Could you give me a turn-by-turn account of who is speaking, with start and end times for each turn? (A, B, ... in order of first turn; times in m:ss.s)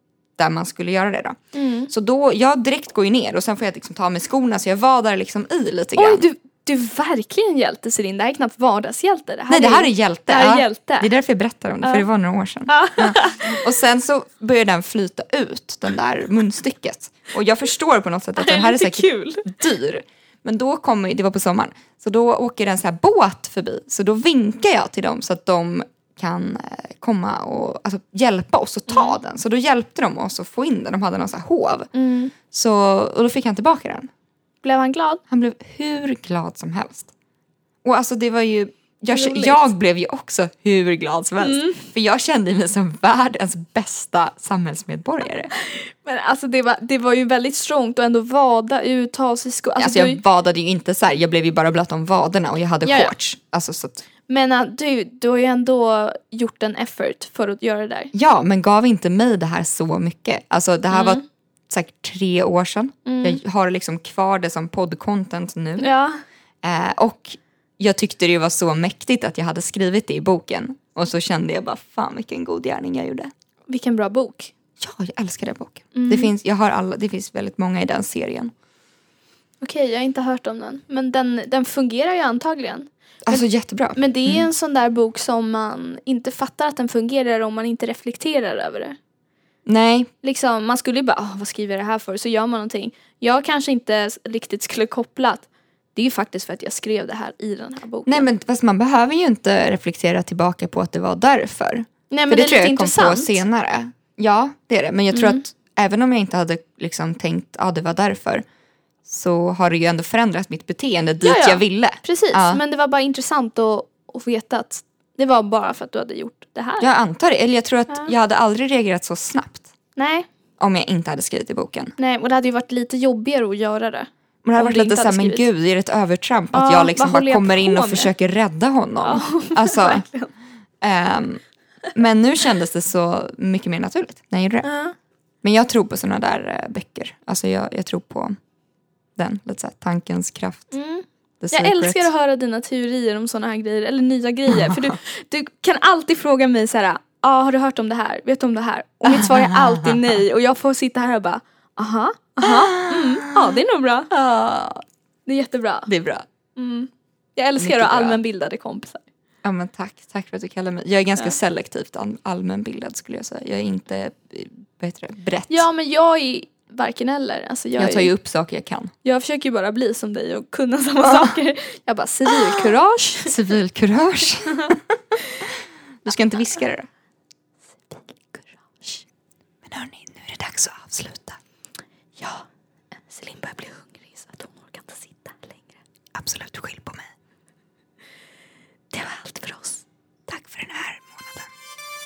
0:00.4-0:01.4 A
0:01.5-0:01.9 B
0:01.9-0:06.2 A
0:06.0-0:11.1 B
0:09.5-0:31.9 A
0:12.7-0:13.6 B
0:18.4-0:19.4 B
0:28.9-0:29.2 B
0:31.9-0:32.3 B
0:32.5-0:34.1 A
0:34.6-0:35.2 B
0:35.3-0:37.1 A
0:37.8-0:45.5 A
0:39.1-0:39.7 B
0:41.4-0:41.8 B
0:45.5-0:50.2 B
0:49.8-0:54.0 A
0:52.8-0:53.1 B
0:54.3-0:58.1 B
0:58.1-1:05.9 A
1:00.9-1:01.2 B
1:03.0-1:03.4 B
1:05.8-1:06.2 B
1:06.6-1:13.3 A
1:13.7-1:14.5 B
1:14.8-1:18.5 A
1:15.9-1:16.3 B
1:19.6-1:23.4 B
1:23.2-1:24.5 A
1:24.0-1:29.0 B
1:29.6-1:30.1 A
1:30.2-1:38.3 B
1:38.0-1:48.4 A
1:42.1-1:43.4 B
1:45.1-1:45.4 B
1:49.0-1:52.6 A
1:51.2-1:56.9 B
1:56.8-1:59.7 A
2:00.0-2:00.3 B
2:00.6-2:01.9 A
2:02.0-2:05.4 B
2:04.4-2:10.0 A
2:06.5-2:08.1 B
2:09.0-2:10.3 B
2:10.8-2:11.4 A
2:11.9-2:14.7 A
2:14.6-2:14.9 B
2:15.4-2:18.4 A
2:19.2-2:20.7 A
2:20.7-2:34.1 B
2:21.4-2:22.1 A
2:24.6-2:24.9 A
2:29.1-2:30.1 A
2:32.4-2:33.6 A
2:34.1-2:34.8 A
2:35.2-2:35.9 B
2:35.9-2:36.2 A
2:36.6-2:39.0 B
2:37.6-2:38.2 A
2:39.4-2:45.7 A
2:45.5-2:48.1 B
2:47.8-2:48.9 A
2:49.0-2:53.3 B
2:51.0-2:51.4 A
2:52.3-2:52.6 A
2:53.2-2:55.0 A
2:56.0-2:56.9 A
2:58.3-2:58.8 A
2:59.6-3:01.4 A
3:02.2-3:02.4 B
3:03.1-3:05.7 B
3:06.1-3:07.1 A
3:08.9-3:09.8 B
3:10.3-3:11.5 A